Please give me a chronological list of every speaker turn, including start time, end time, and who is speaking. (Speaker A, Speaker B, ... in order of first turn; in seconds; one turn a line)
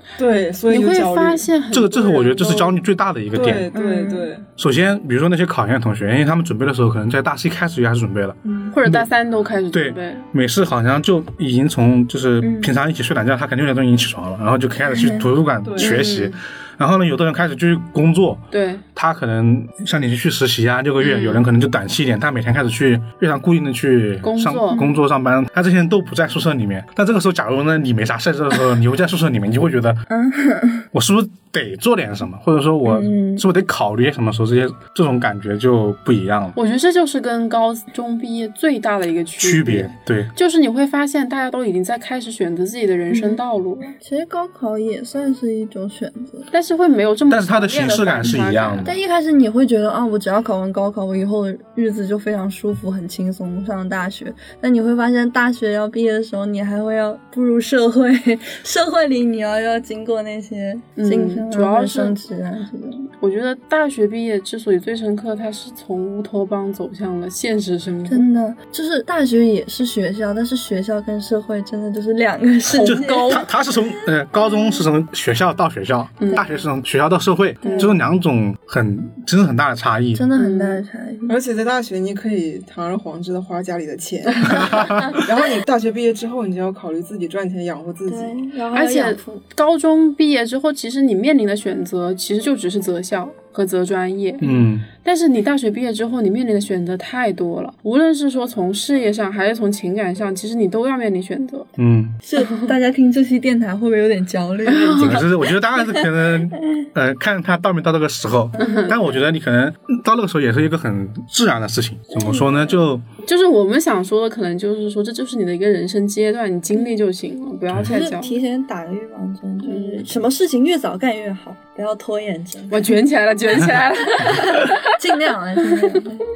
Speaker A: 0.2-1.5
Speaker B: 0.7-2.8
Speaker C: 1.7-3.7
Speaker A: 3.3-4.4
Speaker D: 3.7-4.3
Speaker C: 4.6-9.1
Speaker B: 8.7-10.3
Speaker C: 9.7-30.0
Speaker D: 12.4-12.7
Speaker D: 14.9-15.3
Speaker A: 15.6-15.9
Speaker B: 15.8-16.4
Speaker B: 18.5-18.8
Speaker B: 21.0-21.5
Speaker B: 24.2-24.9
Speaker D: 30.1-30.9
Speaker C: 30.9-36.5
Speaker D: 32.8-33.5
Speaker B: 36.5-44.0
Speaker C: 39.4-40.3
Speaker D: 43.1-43.4
Speaker D: 44.0-46.5
Speaker B: 46.5-48.9
Speaker C: 47.3-48.9
Speaker D: 48.8-63.1
Speaker B: 61.0-62.2
Speaker B: 63.2-68.3
Speaker D: 68.0-73.5
Speaker B: 72.7-73.5
Speaker C: 72.8-80.2
Speaker D: 74.4-74.8
Speaker B: 76.2-76.5
Speaker D: 76.2-76.5
Speaker B: 77.6-78.0
Speaker D: 80.1-81.4
Speaker B: 80.3-80.8
Speaker A: 81.3-88.4
Speaker C: 84.5-85.2
Speaker D: 84.6-85.2
Speaker D: 88.1-89.4
Speaker B: 88.7-101.7
Speaker C: 94.4-94.8
Speaker C: 101.8-102.2
Speaker D: 102.2-106.8
Speaker B: 104.7-105.2
Speaker C: 105.0-113.0
Speaker D: 108.6-108.9
Speaker B: 108.6-109.0
Speaker D: 112.1-112.7
Speaker B: 113.2-118.3
Speaker D: 117.8-122.9
Speaker B: 119.6-120.0
Speaker B: 122.7-124.9
Speaker D: 124.3-126.2